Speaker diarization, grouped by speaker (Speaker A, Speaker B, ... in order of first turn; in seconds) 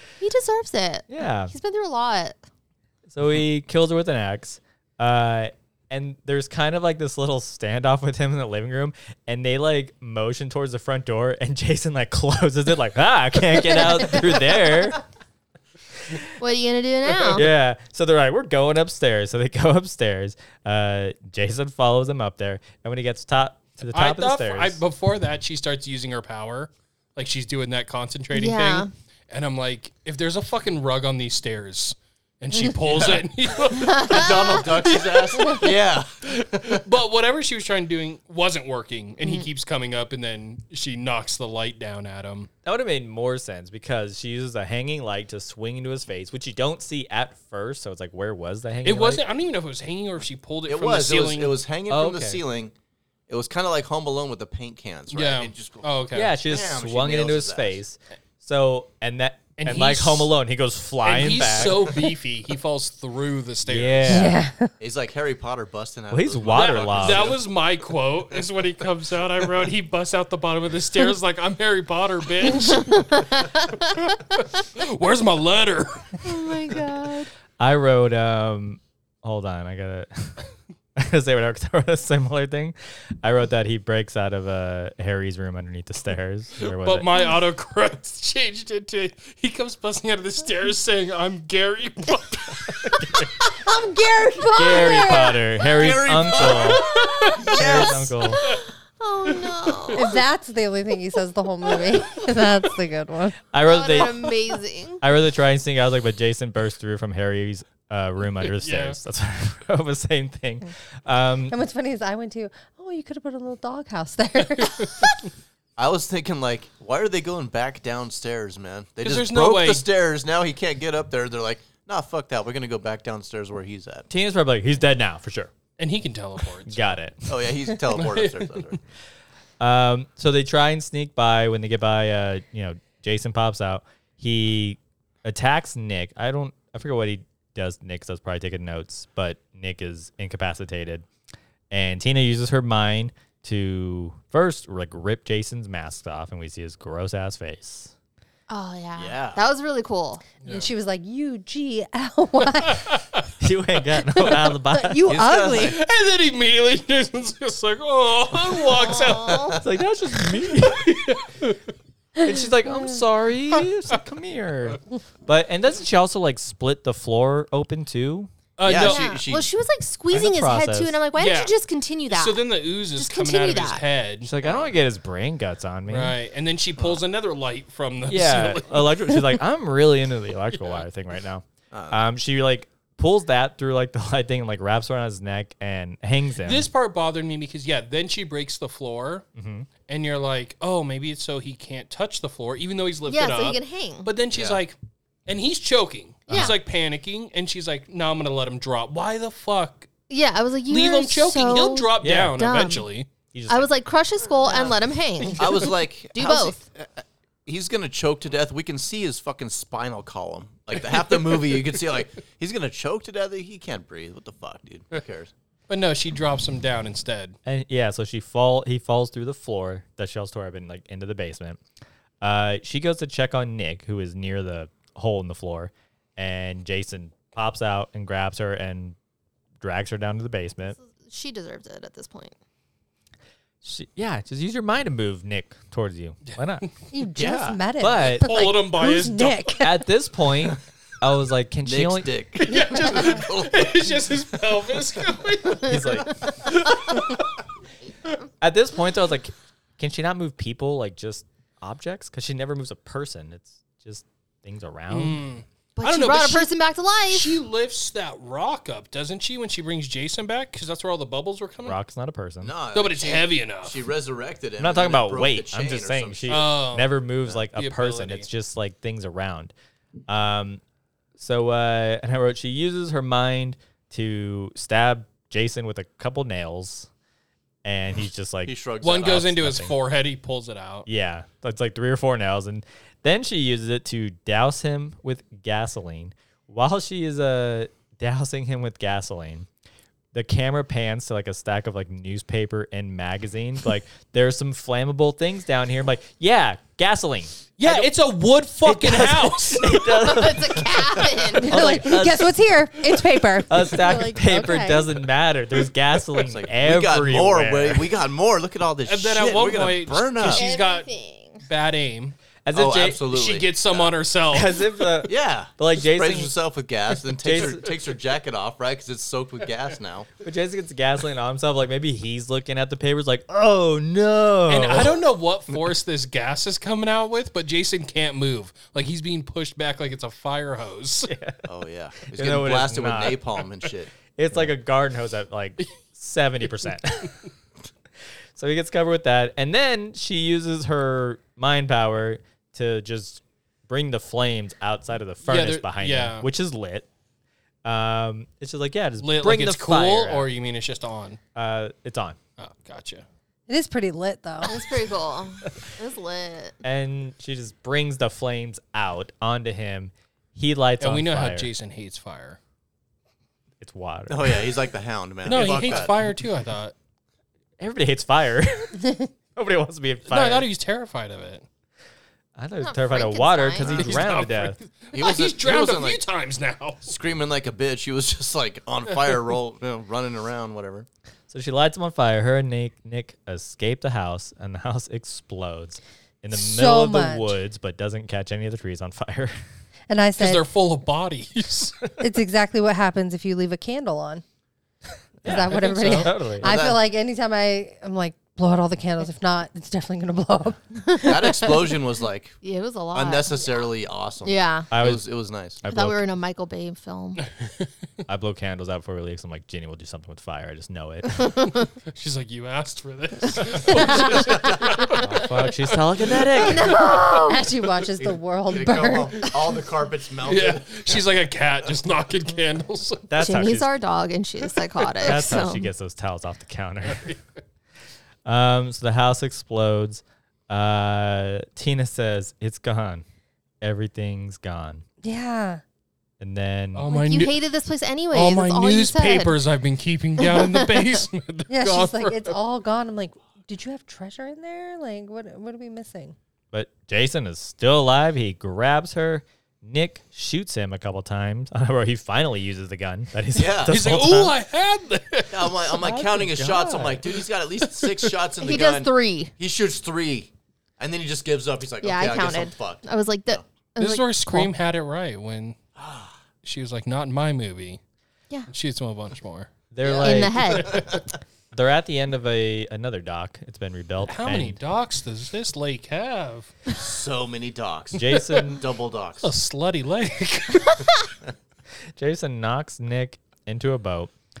Speaker A: 0.2-2.4, 16.4-17.4, 28.3-28.9, 33.7-35.6, 72.7-73.5, 76.2-77.3, 94.3-95.4, 98.3-100.1, 103.6-105.0, 148.5-150.3, 158.7-159.6, 168.7-173.8, 193.1-194.1, 200.1-202.9, 203.5-206.6, 230.8-232.3, 255.8-257.4, 299.7-301.6, 310.3-311.4, 354.4-356.6, 372.6-373.8, 400.9-401.5, 402.4-403.7, 404.2-404.7, 405.6-407.2, 411.2-411.7, 423.2-425.7, 436.9-439.4, 440.2-440.9, 458.4-459.3, 461.8-464.5, 470.0-470.8
Speaker B: 1.1-1.5, 3.1-15.0, 17.3-24.8, 42.6-49.2, 51.9-52.4, 56.1-61.9, 63.6-64.4, 66.1-67.4, 77.6-80.4, 81.0-87.1, 94.5-96.8, 97.5-98.4, 103.5-104.2, 105.0-111.5, 124.1-125.5, 126.7-127.5, 129.6-141.1, 141.7-147.9, 153.4-155.2, 159.6-161.2, 162.2-168.3, 170.1-171.0, 174.2-176.2, 178.1-186.7, 189.3-189.7, 196.3-196.6, 202.0-202.4, 203.3-203.7, 217.4-221.6, 222.2-228.9, 229.6-230.8, 233.6-236.7, 237.8-238.3, 239.6-242.1, 245.6-246.2, 248.4-255.2, 261.6-262.5, 264.6-269.5, 270.1-270.6, 271.2-276.9, 277.6-279.7, 280.9-289.5, 290.1-297.9, 298.6-302.4, 303.4-307.9, 312.4-313.0, 314.3-316.3, 317.2-317.7, 320.2-325.0, 331.1-331.4, 332.1-333.2, 334.2-337.1, 338.3-346.9, 347.6-350.3, 351.4-352.2, 356.6-361.5, 363.6-364.5, 365.3-365.9, 367.6-370.5, 372.4-374.6, 381.3-389.3, 395.2-396.5, 404.7-405.0, 405.6-406.0, 408.1-411.3, 415.0-416.8, 423.1-423.7, 425.0-427.1, 428.2-433.0, 433.6-434.8, 436.2-436.9, 446.5-454.4, 455.8-457.2, 469.7-470.7, 471.5-474.6, 477.9-478.6, 481.9-484.1
Speaker C: 23.9-34.3, 36.3-42.5, 48.8-51.6, 55.1-56.3, 59.6-60.3, 61.0-64.3, 66.5-73.3, 73.9-76.4, 86.6-93.2, 96.7-97.5, 98.3-98.7, 99.3-100.1, 108.5-109.0, 114.6-115.1, 119.0-119.8, 125.8-126.9, 127.9-128.6, 152.6-153.2, 155.5-159.5, 160.6-161.6, 168.6-169.2, 171.1-171.5, 172.1-174.3, 175.9-179.3, 186.4-189.2, 189.8-199.9, 200.7-203.1, 204.5-205.3, 215.7-217.3, 236.3-236.7, 238.2-239.6, 242.4-247.2, 254.9-256.5, 257.1-261.8, 262.7-263.8, 266.3-268.2, 278.8-280.9, 297.6-299.7, 308.9-310.9, 311.4-312.1, 313.0-314.6, 324.5-331.1, 345.2-346.3, 349.0-351.2, 352.4-353.0, 360.8-362.4, 365.2-366.7, 370.1-371.4, 373.7-376.9, 390.2-391.9, 395.8-396.1, 407.2-407.6, 411.9-417.1, 420.2-423.1, 436.7-437.4, 438.1-442.4, 453.7-455.6, 457.7-458.1, 463.8-465.6, 466.4-467.8, 468.5-471.0, 474.1-476.5, 479.2-480.9
Speaker D: 32.9-33.2, 33.9-36.8, 50.7-52.7, 53.3-57.8, 61.6-61.9, 64.8-67.5, 95.6-98.2, 115.8-124.1, 127.3-128.8, 148.9-149.4, 155.1-155.8, 159.2-159.6, 168.6-169.5, 174.4-174.7, 176.8-177.0, 181.7-182.0, 194.3-194.6, 205.4-215.3, 237.2-237.6, 241.6-244.0, 262.4-266.6, 278.4-279.4, 306.2-310.5, 312.5-314.0, 315.0-320.1, 331.4-333.9, 364.1-366.2, 373.6-374.0, 374.9-376.1, 376.8-380.9, 395.2-395.8, 396.4-396.8, 401.0-402.4, 402.9-405.6, 413.9-414.8, 418.0-421.1, 453.3-453.9, 455.3-463.4, 465.8-466.2, 469.9-471.0, 476.7-479.3
Speaker E: 64.1-64.7, 93.7-95.2, 99.9-103.4, 111.5-115.1, 150.4-152.9, 154.2-155.8, 236.9-239.9, 301.4-304.9, 353.5-354.5, 386.3-387.3, 389.9-390.5, 392.0-394.2, 395.2-400.8, 416.6-419.4, 435.0-435.6, 441.5-446.1